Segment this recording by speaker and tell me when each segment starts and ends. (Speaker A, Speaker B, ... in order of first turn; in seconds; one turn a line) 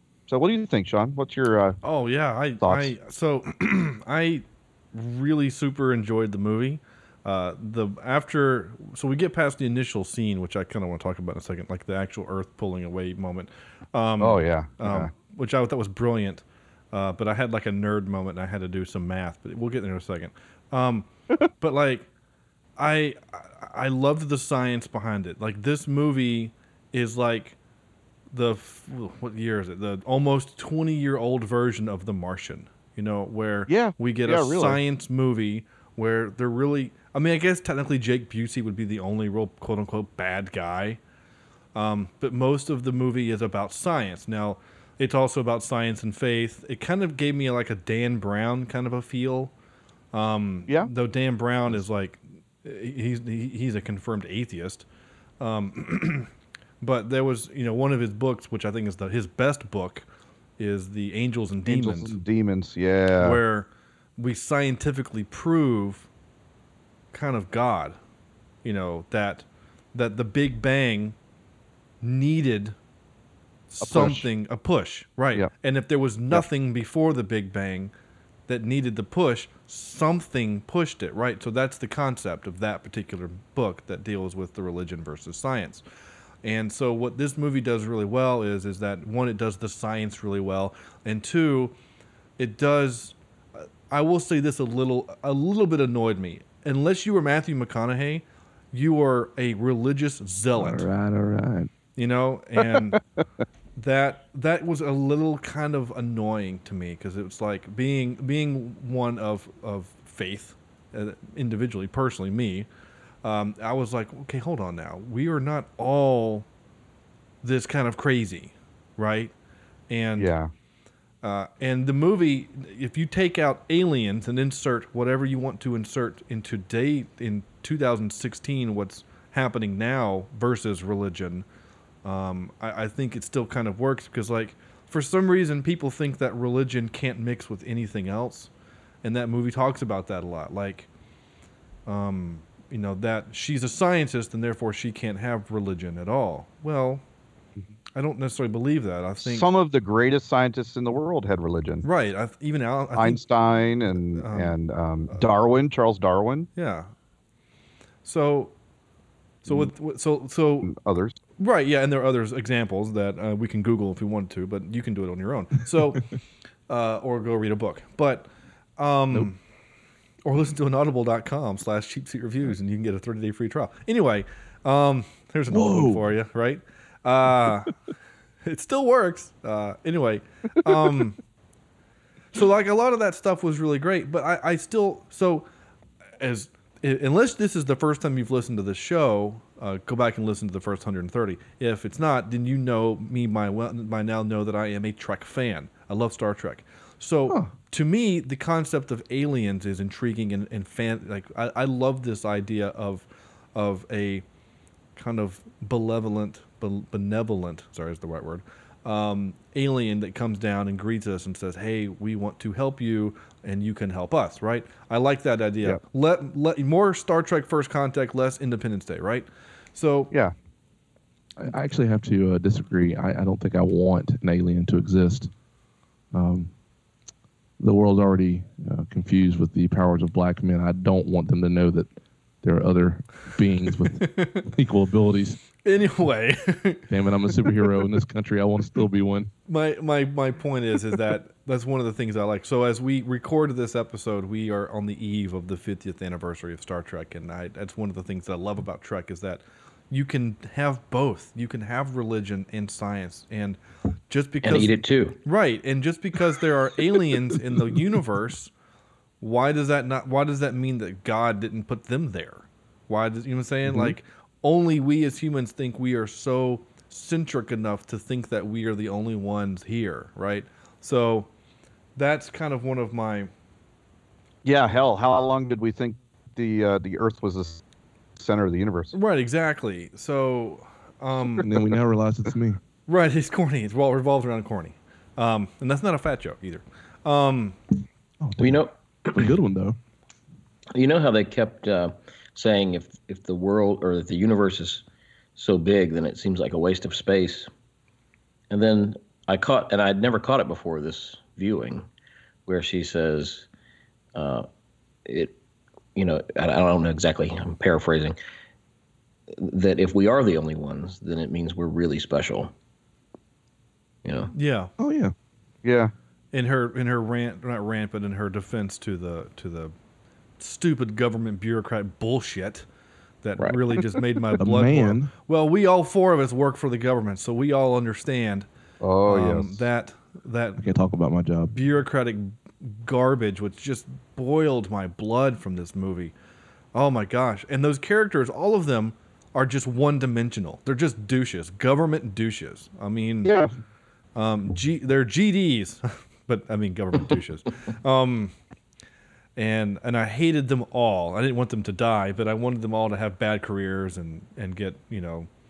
Speaker A: 0.3-1.8
Speaker B: 1.8-21.1
Speaker A: 2.6-2.9
Speaker A: 14.2-15.1
Speaker B: 21.6-22.1
Speaker B: 22.8-27.6
Speaker B: 28.3-41.0
Speaker A: 33.7-34.8
Speaker B: 41.8-49.5
Speaker B: 50.1-54.9
Speaker B: 55.4-56.3
Speaker B: 56.8-60.1
Speaker B: 60.6-62.2
Speaker A: 61.7-63.4
Speaker B: 63.2-66.1
Speaker B: 67.1-68.0
Speaker B: 68.6-71.2
Speaker B: 72.0-72.8
Speaker B: 73.7-77.9
Speaker A: 73.8-74.3
Speaker B: 78.5-85.8
Speaker B: 86.4-91.8
Speaker B: 92.4-100.9
Speaker C: 100.6-101.7
Speaker B: 102.0-103.0
Speaker B: 103.8-112.7
Speaker B: 113.2-116.5
Speaker B: 117.4-119.3
Speaker B: 119.9-120.3
Speaker A: 120.2-120.5
Speaker B: 121.2-131.4
Speaker B: 132.0-138.5
Speaker B: 139.0-140.9
Speaker B: 141.9-147.0
Speaker B: 148.0-149.5
Speaker A: 149.2-151.8
Speaker B: 151.8-154.6
Speaker A: 153.0-156.5
Speaker B: 156.6-156.9
Speaker B: 158.1-158.5
Speaker B: 159.4-160.7
Speaker A: 160.6-161.2
Speaker B: 161.4-166.0
Speaker B: 166.7-169.4
Speaker B: 170.2-177.7
Speaker C: 175.5-176.1
Speaker B: 178.4-181.2
Speaker B: 182.3-185.5
Speaker B: 186.2-204.2
Speaker C: 197.3-197.6
Speaker B: 205.0-220.1
Speaker C: 221.4-225.3
Speaker C: 226.1-226.5
Speaker C: 227.6-231.9
Speaker C: 232.4-235.4
Speaker B: 234.0-234.4
Speaker B: 235.6-236.9
Speaker C: 236.9-239.3
Speaker B: 237.5-237.7
Speaker B: 239.5-253.6
Speaker B: 254.1-258.5
Speaker D: 254.4-255.2
Speaker B: 259.2-271.3
Speaker C: 263.7-263.9
Speaker B: 272.0-273.3
Speaker A: 274.4-277.6
Speaker A: 278.2-278.9
Speaker B: 278.9-281.5
Speaker C: 281.4-282.6
Speaker B: 282.9-287.6
Speaker C: 288.2-289.8
Speaker D: 288.4-288.7
Speaker D: 290.8-294.8
Speaker D: 295.4-297.5
Speaker D: 298.5-301.9
Speaker D: 302.5-303.5
Speaker D: 304.1-304.5
Speaker D: 305.1-305.4
Speaker D: 306.0-308.2
Speaker D: 309.4-312.5
Speaker D: 314.1-314.3
Speaker B: 314.3-314.7
Speaker C: 314.8-315.1
Speaker A: 315.6-315.9
Speaker B: 316.3-319.7
Speaker B: 320.4-322.7
Speaker B: 323.2-328.5
Speaker C: 324.4-325.1
Speaker A: 328.8-329.7
Speaker B: 329.1-330.6
Speaker C: 330.6-331.5
Speaker B: 331.5-336.1
Speaker B: 336.7-343.3
Speaker A: 343.2-343.5
Speaker B: 344.1-348.3
Speaker B: 349.4-355.3